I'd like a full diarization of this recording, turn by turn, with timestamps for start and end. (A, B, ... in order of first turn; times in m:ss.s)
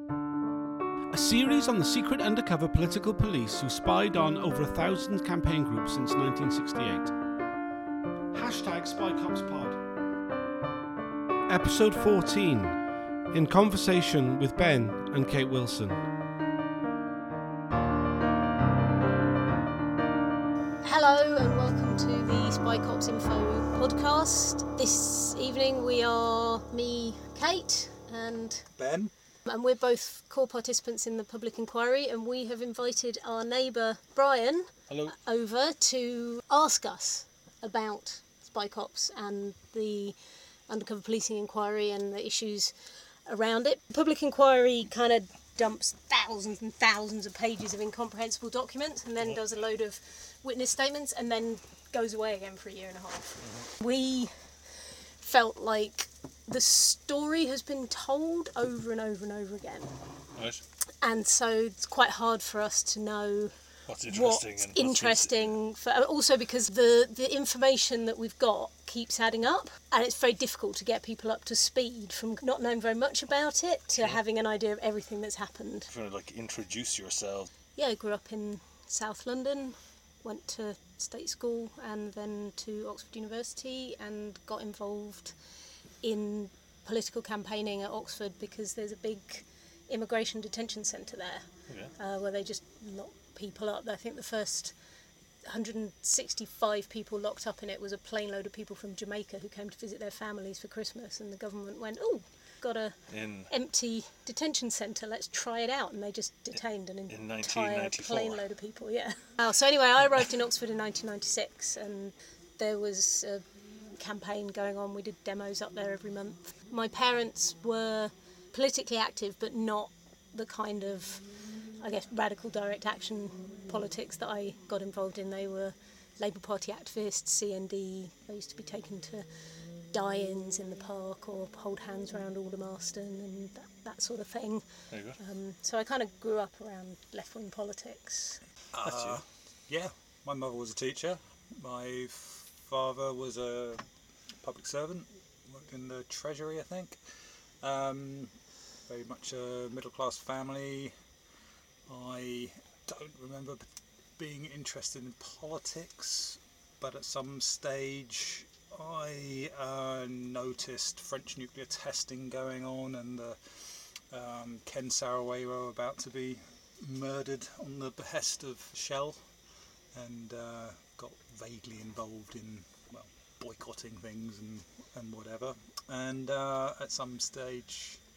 0:01.1-0:07.1 A
0:08.3-0:09.8 A
0:11.5-0:12.8 A
0:13.3-0:16.0 A
0:20.8-0:28.7 B
0:28.8-0:29.1 C
0:29.4-0:40.2 B
0:34.9-0:35.1 D
0:40.7-0:42.7 B
0:43.3-0:54.3 B
0:53.4-0:53.7 D
0:55.2-0:59.9 B
1:00.4-1:00.6 D
1:01.0-1:03.5 B
1:03.9-1:05.5 D
1:04.1-1:15.9 B
1:15.9-1:17.5 D
1:17.8-1:25.3 B
1:26.0-1:34.7 B
1:35.4-1:43.0 B
1:43.1-1:43.5 D
1:43.5-1:53.4 B
1:47.1-1:48.4 D
1:54.0-2:01.2 B
2:01.8-2:09.3 B
2:09.9-2:14.6 B
2:14.9-2:15.2 D
2:15.2-2:18.4 B
2:18.7-2:23.8 C
2:18.8-2:19.2 D
2:24.4-2:27.0 C
2:27.6-2:28.3 C
2:28.9-2:30.9 C
2:31.9-2:33.6 C
2:34.2-2:49.2 C
2:49.9-2:58.0 C